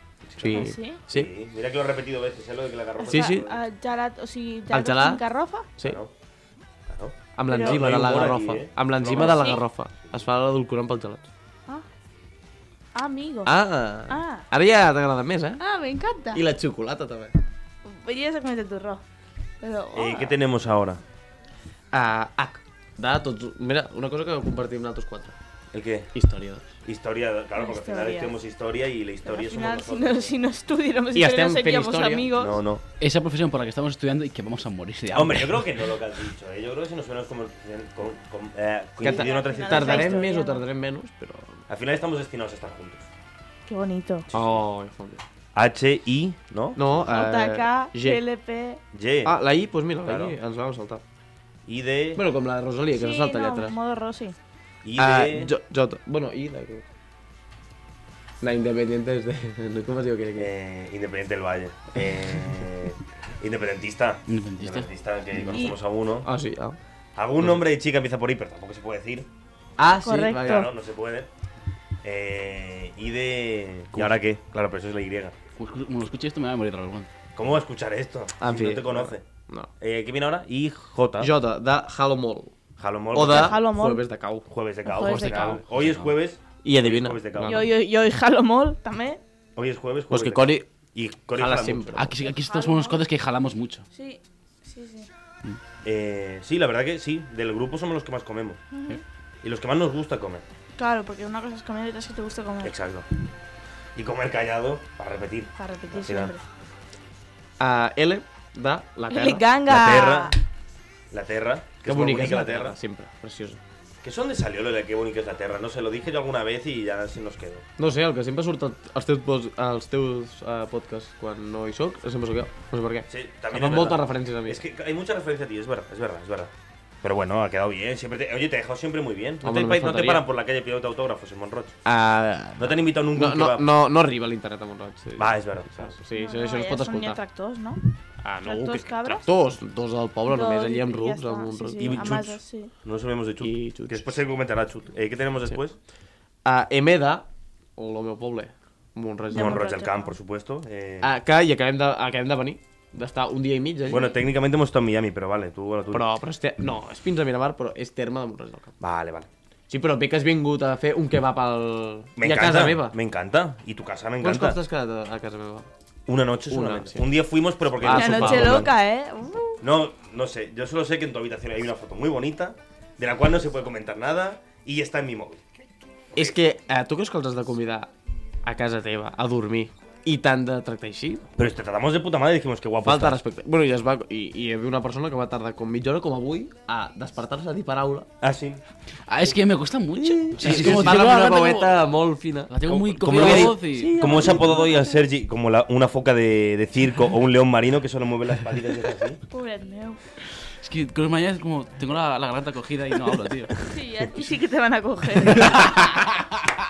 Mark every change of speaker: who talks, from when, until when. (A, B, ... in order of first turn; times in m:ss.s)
0:00.3-0:03.6 A
0:00.4-0:01.3 B
0:00.5-0:01.0 C
0:03.0-0:05.7 C
0:03.1-0:03.5 B
0:04.7-0:05.2 B
0:05.8-0:06.1 A
0:06.9-0:10.2 A
0:07.4-0:11.3 B
0:07.5-0:08.3 C
0:09.1-0:09.6 C
0:13.0-0:13.5 C
0:13.4-0:15.6 B
0:14.1-0:14.5 C
0:15.6-0:16.4 C
0:16.3-0:17.4 B
0:17.8-0:19.0 C
0:19.6-0:20.4 C
0:19.9-0:21.0 A
0:21.9-0:25.4 B
0:25.7-0:26.1 A
0:26.1-0:26.7 B
0:26.8-0:30.4 A
0:27.6-0:28.4 C
0:29.2-0:32.6 C
0:31.2-0:32.3 B
0:32.3-0:32.8 A
0:33.0-0:35.7 D
0:35.1-0:40.3 A
0:39.0-0:40.6 C
0:39.0-0:41.6 B
0:41.7-0:43.1 A
0:43.7-0:44.3 C
0:44.3-0:44.6 A
0:44.3-0:45.2 B
0:45.6-0:46.8 A
0:46.8-0:48.2 B
0:47.1-0:48.8 C
0:48.9-0:49.4 A
0:49.2-0:51.0 B
0:50.0-0:50.4 A
0:51.7-0:52.2 A
0:52.2-0:53.8 B
0:53.0-0:54.4 C
0:54.8-0:55.5 A
0:55.0-0:56.8 B
0:58.4-1:00.5 B
1:00.4-1:06.3 A
1:04.3-1:04.9 D
1:05.4-1:05.6 B
1:06.2-1:06.8 B
1:07.2-1:09.3 A
1:09.8-1:10.7 B
1:09.9-1:10.7 C
1:10.4-1:11.3 A
1:12.0-1:15.4 A
1:15.6-1:17.1 D
1:17.4-1:19.2 A
1:18.4-1:19.7 B
1:19.8-1:21.3 A
1:21.2-1:22.5 B
1:22.8-1:23.6 A
1:23.1-1:24.5 B
1:23.2-1:24.0 C
1:24.5-1:27.7 A
1:24.9-1:25.6 C
1:24.9-1:26.1 D
1:26.6-1:27.7 B
1:27.4-1:29.2 C
1:29.6-1:32.1 A
1:30.1-1:30.7 B
1:31.4-1:32.1 B
1:32.0-1:33.8 D
1:32.2-1:33.1 C
1:33.9-1:35.1 C
1:35.8-1:38.6 A
1:38.7-1:39.0 C
1:39.4-1:40.4 A
1:40.8-1:42.8 C
1:42.6-1:43.1 A
1:44.0-1:46.3 A
1:45.6-1:46.4 C
1:47.6-1:49.5 B
1:49.1-1:50.4 C
1:49.7-1:50.4 A
1:51.1-1:52.8 A
1:51.8-1:53.6 B
1:54.0-1:57.6 A
1:57.8-2:04.6 B
2:03.1-2:11.8 A
2:09.4-2:10.3 B
2:11.8-2:17.2 B
2:12.6-2:13.7 A
2:15.2-2:15.9 A
2:16.2-2:17.8 C
2:18.2-2:22.1 B
2:18.4-2:19.3 C
2:20.3-2:22.7 C
2:21.8-2:25.8 A
2:23.4-2:24.2 B
2:26.4-2:29.7 B
2:29.3-2:30.2 C
2:29.3-2:31.1 A
2:31.0-2:34.1 B
2:33.9-2:36.1 A
2:35.9-2:38.7 B
2:38.8-2:39.3 A
2:39.7-2:43.0 B
2:42.2-2:44.6 A
2:44.2-2:45.7 B
2:46.1-2:48.7 A
2:46.5-2:47.1 B
2:47.8-2:48.7 B
2:47.9-2:49.6 C
2:49.6-2:55.4 A
2:56.2-2:57.9 B
2:58.4-3:01.3 B
3:01.4-3:03.2 A
3:02.8-3:08.1 B
3:08.2-3:08.6 A
3:09.1-3:11.8 D
3:10.0-3:11.0 A
3:10.3-3:14.8 B
3:12.5-3:14.0 D
3:12.7-3:19.2 A
3:14.5-3:14.9 C
3:19.3-3:20.0 C
3:20.6-3:23.6 D
3:23.6-3:26.0 C
3:25.4-3:26.3 D